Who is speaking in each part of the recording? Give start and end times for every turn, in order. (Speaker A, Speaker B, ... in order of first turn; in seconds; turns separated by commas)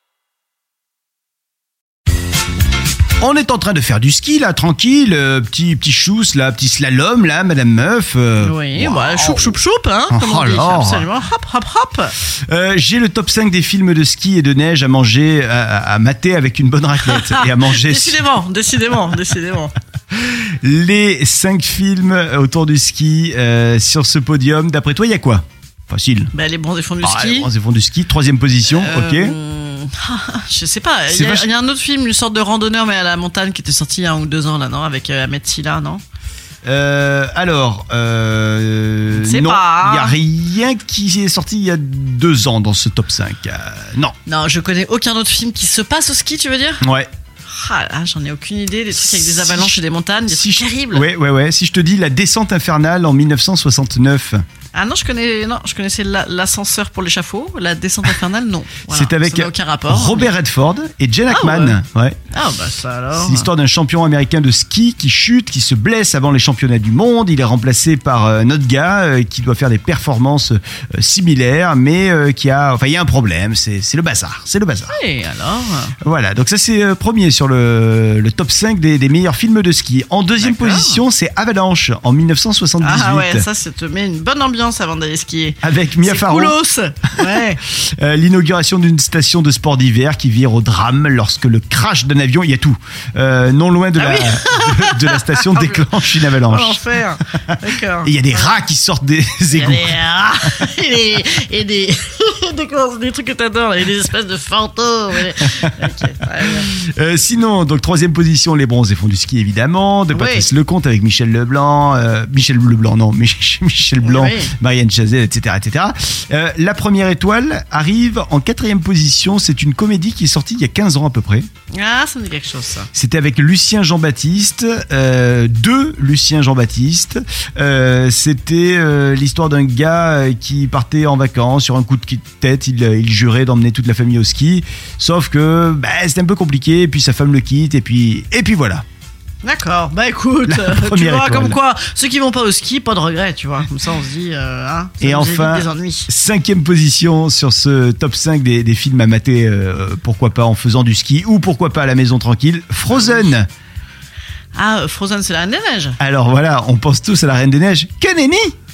Speaker A: 3.2-9.6, Speaker B: 8.4-12.1, Speaker A: 10.1-11.1, Speaker A: 12.5-18.2, Speaker B: 17.0-19.7, Speaker A: 20.1-26.3, Speaker B: 26.3-27.5, Speaker A: 27.0-29.4, Speaker B: 28.6-36.0, Speaker A: 31.1-31.5, Speaker A: 36.6-44.1, Speaker B: 39.1-40.2, Speaker B: 44.2-46.9, Speaker A: 46.8-47.1, Speaker B: 47.5-51.1, Speaker A: 48.9-49.8, Speaker A: 50.3-54.4, Speaker B: 54.7-60.3, Speaker A: 58.9-62.2, Speaker B: 61.3-61.8, Speaker B: 62.3-63.5, Speaker A: 63.1-75.0, Speaker B: 74.9-75.9, Speaker A: 76.0-83.5, Speaker B: 80.4-81.0, Speaker B: 82.8-87.6, Speaker A: 85.6-86.6, Speaker A: 87.2-97.0, Speaker B: 94.0-98.5, Speaker A: 98.0-100.1, Speaker B: 99.5-106.7, Speaker A: 106.7-121.5, Speaker B: 110.1-110.5, Speaker B: 114.0-114.5, Speaker B: 121.7-122.9, Speaker A: 122.9-138.8, Speaker B: 139.4-146.1, Speaker A: 140.4-141.6, Speaker A: 145.0-153.5, Speaker B: 152.9-153.3, Speaker B: 154.5-156.0, Speaker A: 156.0-158.5